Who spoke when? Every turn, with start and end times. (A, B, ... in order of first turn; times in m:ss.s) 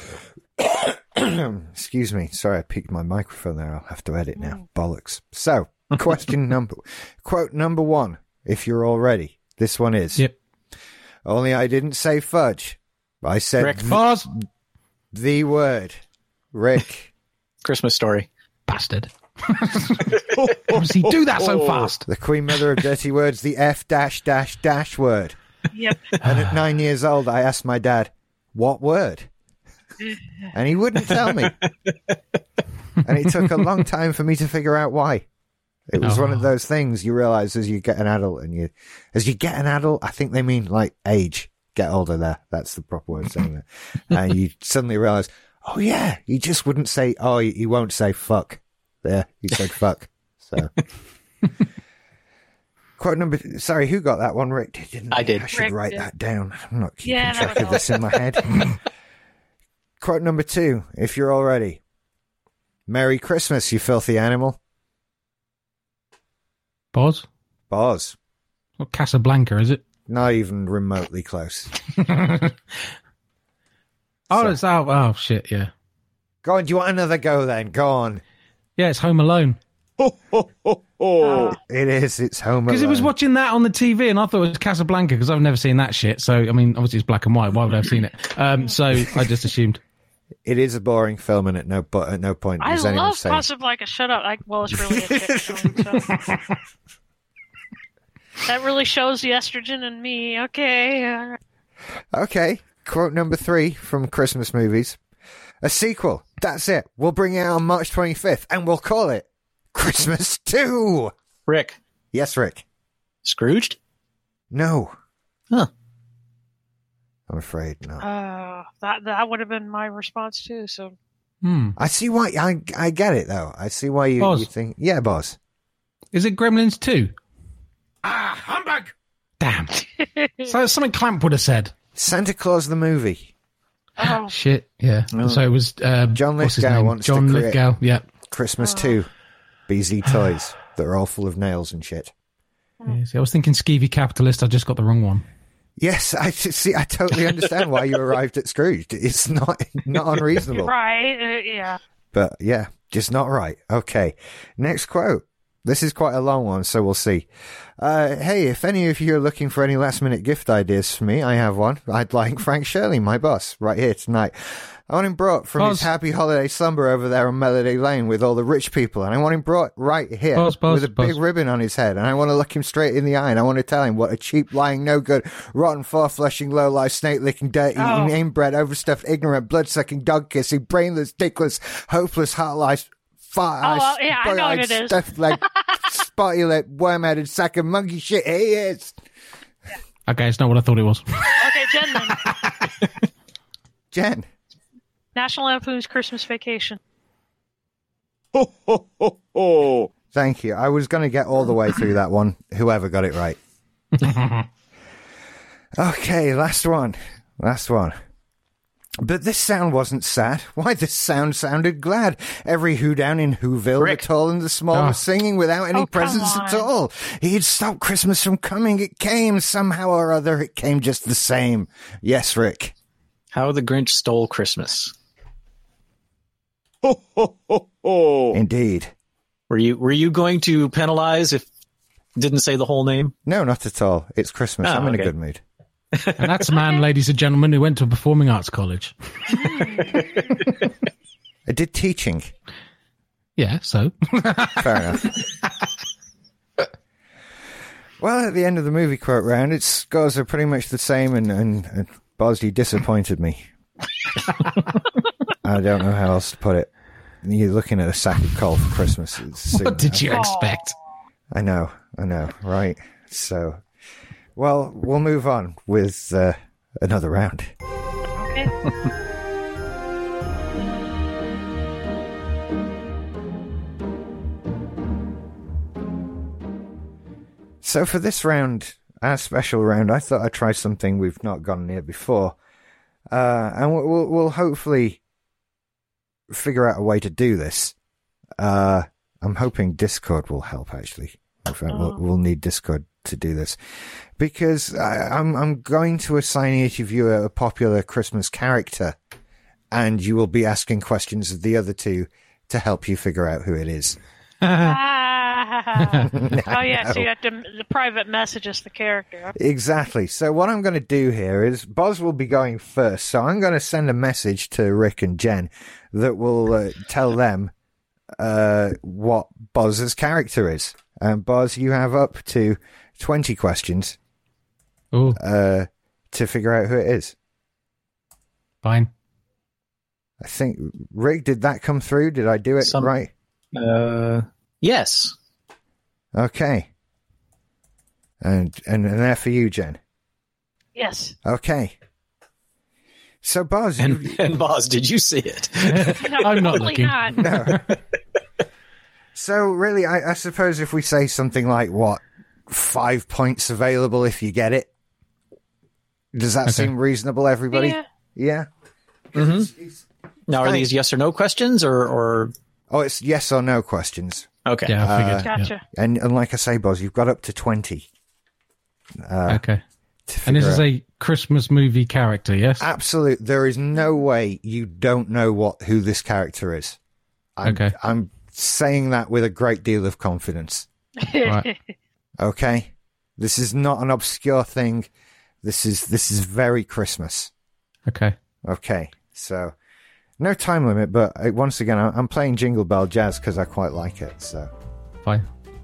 0:00.6-0:10.2 A
0:11.2-0:14.4 A
0:13.6-0:14.0 B
0:13.9-0:14.3 C
0:15.1-0:16.0 A
0:16.5-0:17.1 A
0:17.6-0:18.3 B
0:18.7-0:22.1 C
0:20.3-0:21.9 D
0:22.1-0:25.4 A
0:25.7-0:26.1 E
0:26.2-0:26.6 C
0:26.2-0:29.3 A
0:30.0-0:30.5 E
0:30.5-0:31.6 A
0:31.1-0:32.2 B
0:33.0-0:35.3 A
0:35.9-0:50.7 A
0:36.0-0:36.5 C
0:53.0-0:58.7 A
0:55.1-0:55.5 B
0:55.5-0:56.0 E
0:57.0-0:58.1 E
1:00.0-1:01.8 A
1:02.9-1:04.6 A
1:06.9-1:07.3 C
1:07.7-1:08.2 A
1:08.8-1:09.8 C
1:10.1-1:11.7 A
1:11.9-1:12.6 C
1:14.3-1:14.6 A
1:14.3-1:15.7 C
1:16.4-1:18.2 A
1:18.8-1:19.6 C
1:20.0-1:21.6 D
1:21.2-1:21.6 E
1:21.5-1:23.1 A
1:22.7-1:29.8 C
1:30.4-1:33.5 A
1:32.6-1:36.1 E
1:34.8-1:36.1 A
1:38.4-1:41.4 E
1:42.1-1:45.0 A
1:45.6-1:51.1 A
1:51.5-1:51.8 B
1:52.1-1:52.6 A
1:53.2-1:53.8 B
1:54.5-1:54.9 A
1:57.3-1:58.0 A
1:58.0-2:01.0 E
2:01.4-2:01.8 C
2:01.8-2:05.4 A
2:04.2-2:04.5 C
2:06.1-2:07.1 C
2:09.4-2:09.9 C
2:10.0-2:10.5 E
2:10.4-2:11.7 C
2:12.0-2:13.3 A
2:14.0-2:14.3 E
2:14.0-2:18.1 C
2:15.1-2:15.4 B
2:16.1-2:17.6 A
2:18.3-2:19.1 A
2:18.6-2:19.0 E
2:19.7-2:22.1 A
2:22.9-2:25.2 C
2:25.8-2:30.7 A
2:30.5-2:31.8 E
2:32.1-2:37.3 A
2:37.8-3:09.0 A
2:45.6-2:45.9 C
2:50.4-2:51.2 C
2:57.8-2:58.2 E
3:03.6-3:05.7 E
3:10.1-3:11.4 C
3:11.4-3:12.2 E
3:12.1-3:12.8 C
3:13.9-3:14.3 A
3:15.2-3:16.8 E
3:18.3-3:19.9 D
3:20.1-3:23.4 A
3:24.0-3:24.5 C
3:25.8-3:28.0 A
3:29.0-3:42.7 A
3:33.8-3:34.1 B
3:34.7-3:35.0 C
3:35.7-3:36.7 E
3:43.3-3:44.9 B
3:46.8-3:48.4 D
3:48.3-3:48.9 A
3:49.5-3:51.5 B
3:52.2-3:53.1 B
3:53.3-3:55.4 A
3:54.6-3:55.1 B
3:55.9-3:56.5 B
3:56.2-3:59.6 C
3:59.3-4:00.1 E
4:01.5-4:02.3 A
4:03.4-4:05.1 C
4:04.6-4:05.1 A
4:08.0-4:13.5 A
4:15.4-4:16.7 A
4:17.2-4:20.3 A
4:19.5-4:20.8 C
4:20.1-4:20.7 E
4:21.3-4:23.6 A
4:24.4-4:27.5 A
4:28.2-4:28.5 E
4:37.6-4:42.4 A
4:43.1-4:45.0 A
4:46.3-4:47.8 A
4:48.4-4:53.6 A
4:51.7-4:52.0 E
4:54.2-4:59.0 A
4:59.7-5:04.0 A
5:04.4-5:04.8 C
5:04.5-5:09.3 E
5:05.8-5:06.1 C
5:06.1-5:07.1 A
5:09.4-5:17.5 A
5:18.2-5:24.0 A
5:24.9-5:25.2 C
5:25.2-5:27.2 A
5:28.6-5:28.9 C
5:30.2-5:33.1 A
5:32.6-5:32.9 B
5:33.5-5:35.2 B
5:36.2-5:36.7 A
5:38.2-5:39.8 A
5:40.8-5:41.2 E
5:41.2-5:41.8 A
5:43.2-5:44.2 A
5:43.8-5:46.5 B
5:45.7-5:47.7 C
5:46.0-5:47.3 E
5:47.2-5:47.7 A
5:49.2-5:54.7 A
5:56.1-5:58.5 A
5:56.5-5:56.7 C
5:57.5-5:57.8 E
5:59.1-5:59.8 A
5:59.1-5:59.5 B
6:00.3-6:02.3 B
6:00.4-6:00.7 A
6:02.7-6:04.3 A
6:04.4-6:04.8 B
6:04.7-6:05.5 C
6:04.8-6:07.9 A
6:05.2-6:05.6 E
6:09.0-6:09.4 A
6:09.3-6:09.6 C
6:10.1-6:10.6 A
6:10.3-6:12.6 C
6:12.6-6:16.8 A
6:17.4-6:20.7 A
6:17.4-6:17.8 C
6:21.0-6:21.6 E
6:22.2-6:24.9 A
6:25.4-6:27.3 A
6:27.9-6:28.2 C
6:28.4-6:29.6 A
6:30.2-6:34.5 A